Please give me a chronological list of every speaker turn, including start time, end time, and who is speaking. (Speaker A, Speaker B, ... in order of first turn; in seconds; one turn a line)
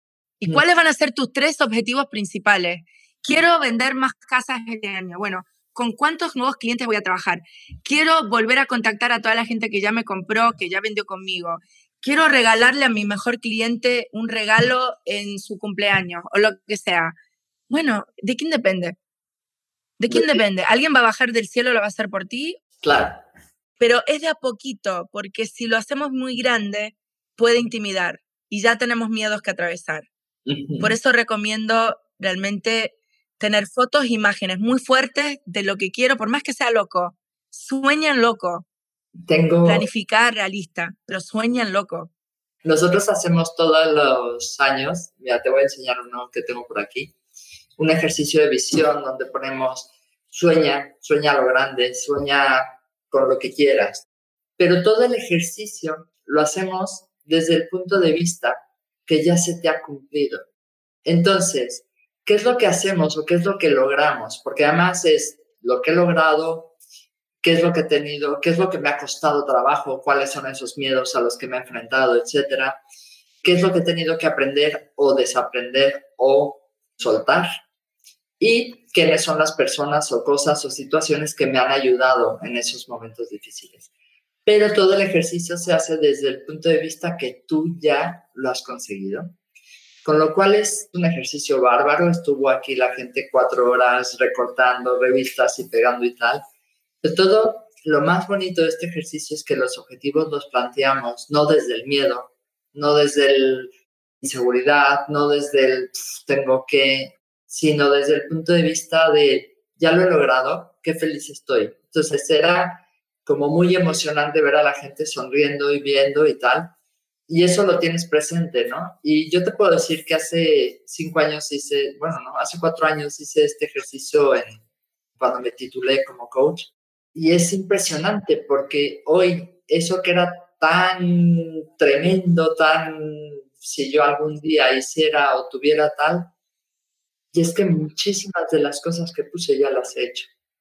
Speaker A: 0.4-17.1
Speaker A: 17.7-19.0
Speaker A: 20.0-22.6
Speaker B: 20.1-20.4
Speaker B: 22.8-23.2
Speaker A: 23.8-30.1
Speaker B: 30.5-30.9
Speaker A: 30.8-38.7
Speaker B: 39.3-39.9
Speaker A: 39.6-42.1
Speaker B: 42.6-47.1
Speaker B: 47.8-54.0
Speaker B: 54.6-60.4
Speaker B: 61.0-66.7
Speaker B: 67.4-72.8
Speaker B: 73.4-77.5
Speaker B: 78.4-83.9
Speaker B: 84.5-89.3
Speaker B: 90.0-96.4
Speaker B: 97.0-116.7
Speaker B: 117.3-124.6
Speaker B: 125.2-136.3
Speaker B: 137.3-140.3